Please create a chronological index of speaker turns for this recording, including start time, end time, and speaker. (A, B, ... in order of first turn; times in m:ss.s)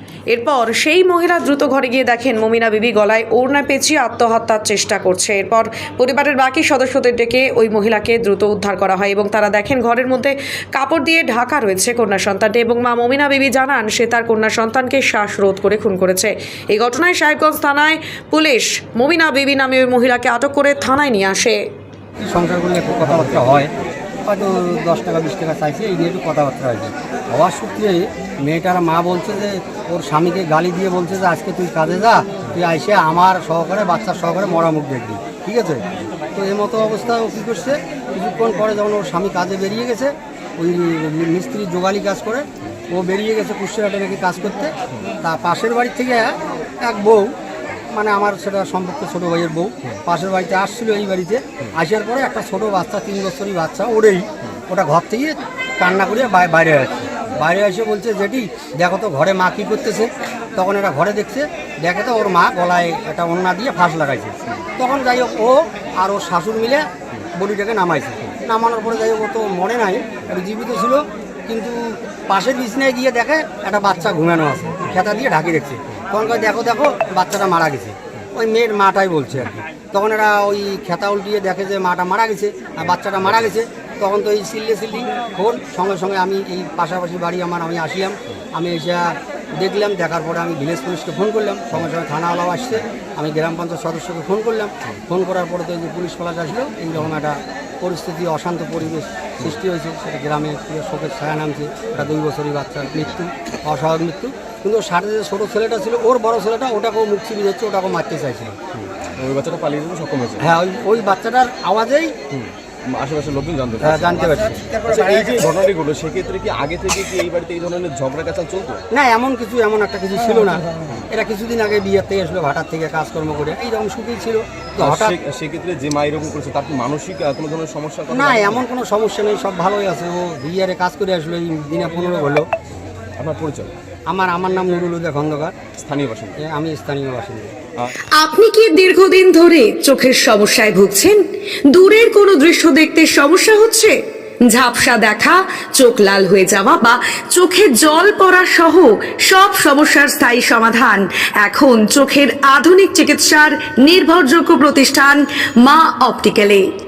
0:00.3-0:21.6 A
0:22.2-0:23.7 B
0:24.2-0:47.3 B
0:47.9-1:48.6 B
1:48.7-1:50.4 C
1:50.4-1:52.1 B
1:52.3-1:58.8 C
1:53.8-1:55.4 B
1:58.9-2:05.2 B
2:04.8-2:08.6 C
2:08.1-2:12.5 B
2:13.2-2:13.7 C
2:14.1-2:15.6 B
2:15.8-2:16.4 C
2:16.4-2:17.5 B
2:18.1-2:36.6 A